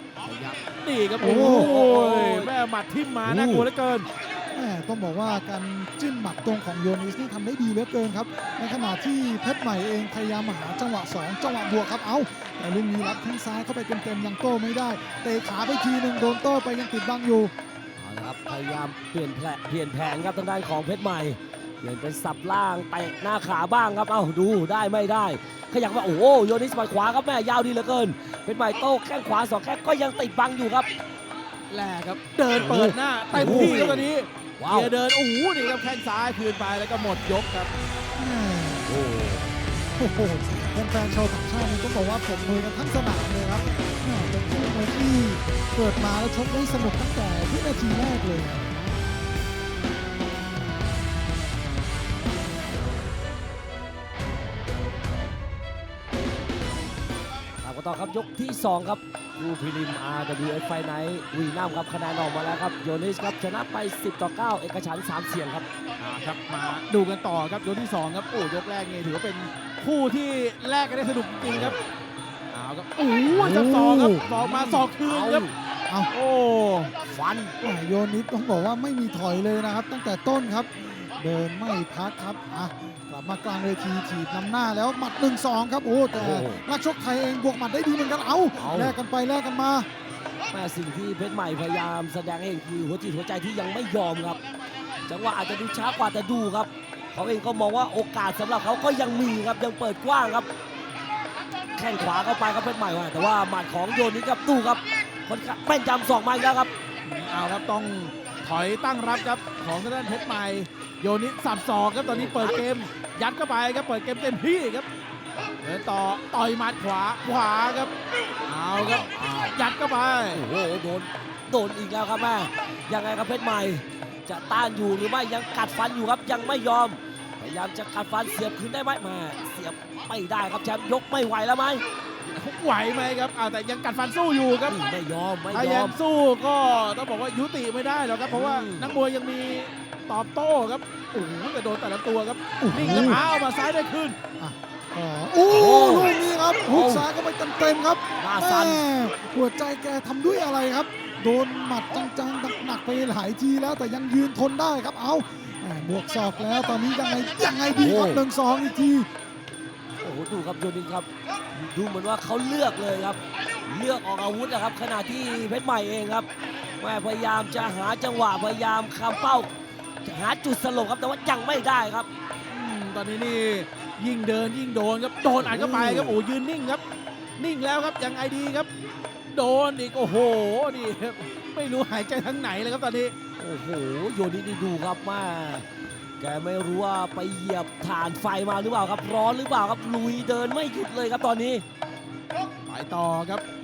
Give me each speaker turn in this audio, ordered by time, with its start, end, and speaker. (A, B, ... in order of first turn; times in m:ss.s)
0:00.2-0:04.1 A
0:01.2-0:01.8 B
0:01.3-0:02.5 C
0:03.2-0:03.7 C
0:04.5-0:17.5 B
0:18.0-0:30.9 C
0:31.7-0:37.7 A
0:32.6-0:33.9 B
0:32.9-0:34.9 C
0:38.2-0:38.9 B
0:38.8-0:39.5 C
0:40.0-0:48.7 B
0:57.6-1:05.7 C
1:06.0-1:11.8 A
1:12.5-1:15.5 A
1:13.3-1:14.2 B
1:13.4-1:15.5 C
1:16.1-1:16.9 A
1:17.1-1:17.6 C
1:17.6-1:29.9 B
1:26.1-1:26.6 C
1:28.6-1:29.0 C
1:30.5-1:34.4 C
1:35.1-1:40.5 C
1:41.7-1:46.7 C
1:47.0-1:54.9 A
1:52.0-1:52.6 C
1:55.6-2:00.4 A
1:58.8-1:59.5 C
2:00.3-2:11.8 C
2:12.3-2:14.8 A
2:14.7-2:16.0 C
2:15.5-2:24.2 A
2:18.3-2:19.0 C
2:22.6-2:23.2 B
2:24.4-2:39.1 B
2:25.5-2:27.1 C
2:28.2-2:28.8 C
2:37.8-2:38.2 C
2:40.0-2:46.3 C
2:46.8-2:49.5 C
2:50.0-2:52.1 C
2:52.5-2:56.8 A
2:55.4-2:56.2 C
2:57.4-2:58.7 A
2:59.3-3:03.2 A
3:03.4-3:05.7 C
3:06.2-3:11.6 C
3:12.7-3:13.4 A